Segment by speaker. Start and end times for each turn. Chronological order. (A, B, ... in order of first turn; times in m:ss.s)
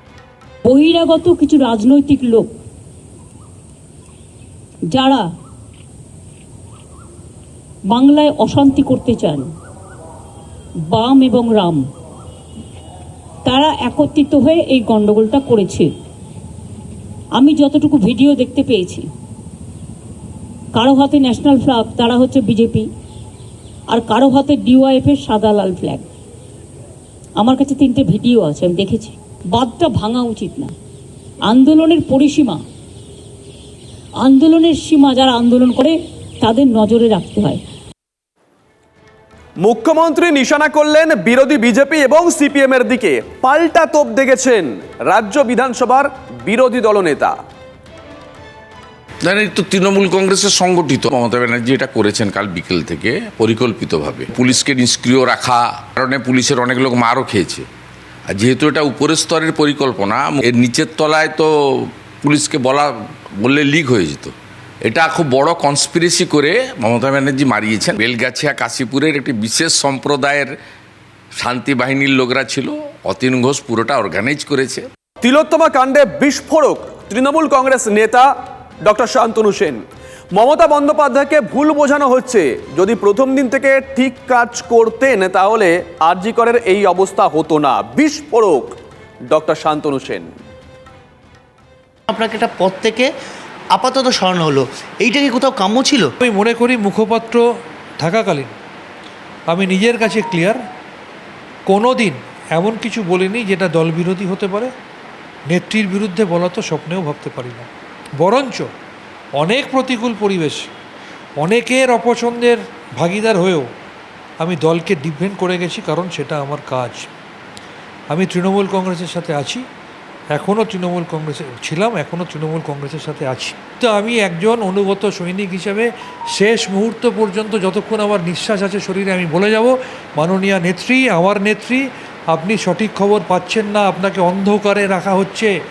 0:00.6-0:02.5 A
0:04.9-0:05.2 A
0:07.9-0:09.5 A
0:10.9-0:11.8 A
0:13.4-0:15.9 A
0:17.4-0:19.0 A
0:20.7-0:22.8 A
0:23.9-0:26.0 A
0:27.4-0:30.7 A
0:31.5-0:32.6 A
0:34.2-0:37.6 A
0:39.6-0:47.4 B
0:49.2-0:57.6 C
0:58.3-1:04.3 C
1:04.8-1:10.5 C
1:11.4-1:14.8 C
1:15.2-1:18.3 B
1:18.8-1:28.7 B
1:29.3-1:30.3 B
1:32.1-1:33.1 D
1:33.7-1:36.1 D
1:36.2-1:37.4 E
1:38.0-1:38.5 E
1:39.5-1:40.6 E
1:41.7-1:44.7 E
1:45.5-1:48.7 E
1:49.4-1:50.7 E
1:51.4-1:53.7 E
1:54.4-1:57.1 E
1:58.1-1:59.6 E
2:00.3-2:15.5 E